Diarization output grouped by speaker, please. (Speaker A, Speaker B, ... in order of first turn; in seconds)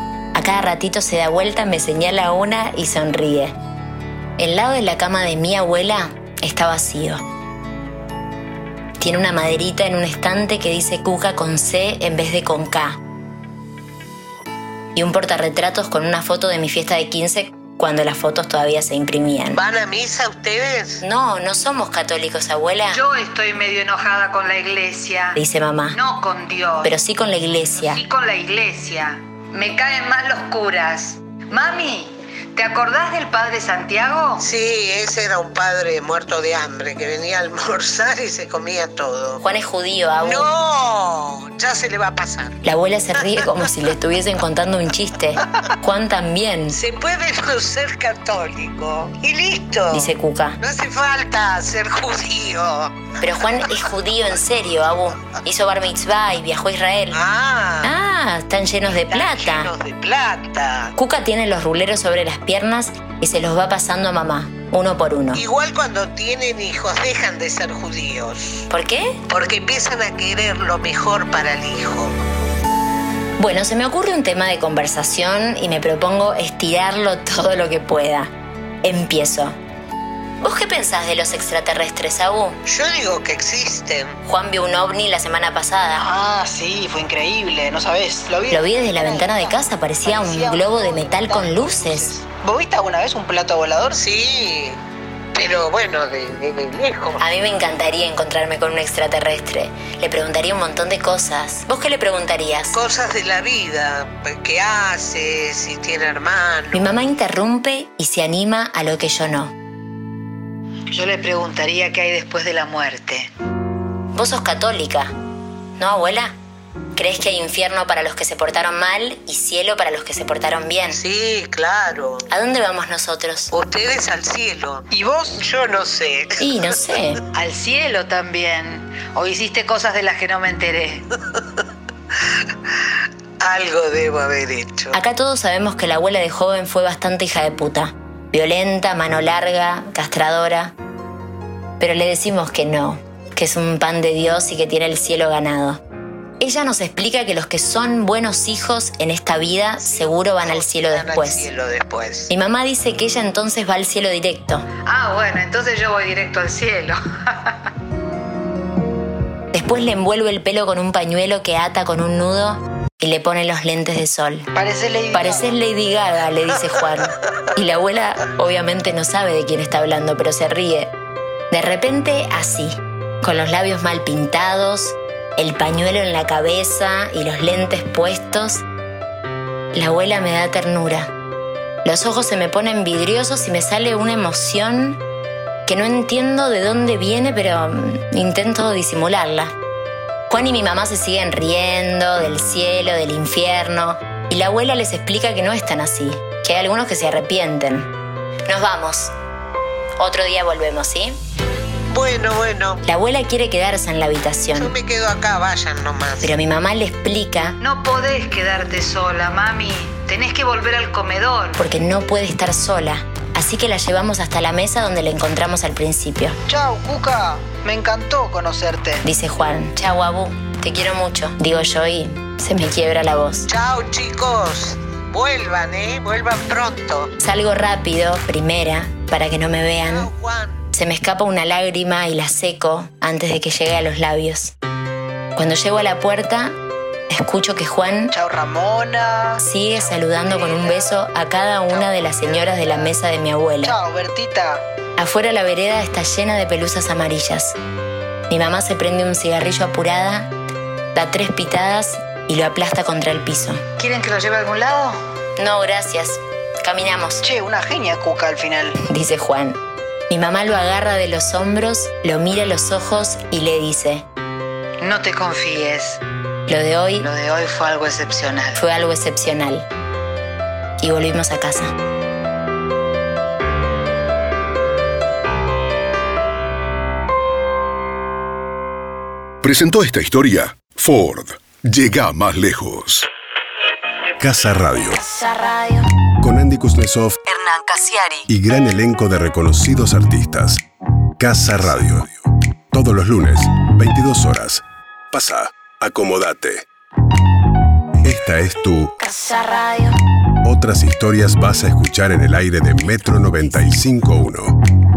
Speaker A: 0.3-3.5, 4.4-7.2, 9.0-13.0, 14.9-19.6, 21.0-23.0, 25.4-26.0, 26.8-28.0, 39.4-40.5, 42.6-46.8, 49.9-50.6, 53.2-57.2, 57.8-59.7, 61.0-65.4, 68.7-69.2, 73.4-78.3, 78.8-79.6, 80.4-82.6, 84.2-86.1, 88.5-92.1, 97.2-102.8, 106.7-109.5, 114.1-115.1, 115.8-116.3, 117.0-121.0, 122.3-123.5, 126.4-127.2, 134.9-140.7, 141.8-145.8, 146.4-151.5, 152.3-154.7, 159.5-164.5, 165.1-170.9, 171.5-178.7, 179.7-181.1, 181.8-185.0, 185.7-189.5, 190.3-197.9, 198.5-199.1, 200.0-201.2, 202.8-204.7, 206.2-207.6, 211.6-216.4, 219.0-223.5, 227.2-230.1, 230.7-234.5, 235.4-236.6, 237.1-238.2, 239.4-243.8, 245.0-247.6, 248.3-250.3, 250.9-253.6, 255.4-257.2, 258.8-264.1, 266.5-267.1, 268.6-269.7, 270.8-271.7
Speaker B: 19.5-21.0, 34.4-39.4, 40.2-42.6, 46.7-53.1, 57.1-58.0, 58.9-60.9, 65.3-68.7, 69.3-72.2, 82.7-84.2, 93.9-94.8, 95.3-97.2, 102.7-106.9, 120.9-122.3, 123.5-124.9, 125.4-126.7, 133.4-135.0, 149.8-152.3, 201.9-202.8, 204.6-206.3, 223.5-227.1, 229.8-230.6
Speaker C: 22.9-25.4, 25.9-26.9, 27.8-34.5, 110.9-113.3, 127.3-131.1, 154.9-157.7, 207.6-211.6, 253.8-255.0, 264.8-266.0, 267.0-268.6, 285.0-285.8, 299.0-299.9
Speaker D: 86.0-94.0, 124.9-125.4, 164.6-165.6, 216.5-219.0, 238.1-241.0, 241.7-242.9, 243.6-244.6, 257.2-258.8
Speaker E: 279.4-283.1
Speaker F: 284.2-285.0, 286.1-287.4, 288.3-290.6, 291.2-292.1, 292.7-296.6, 298.0-298.9, 300.4-304.6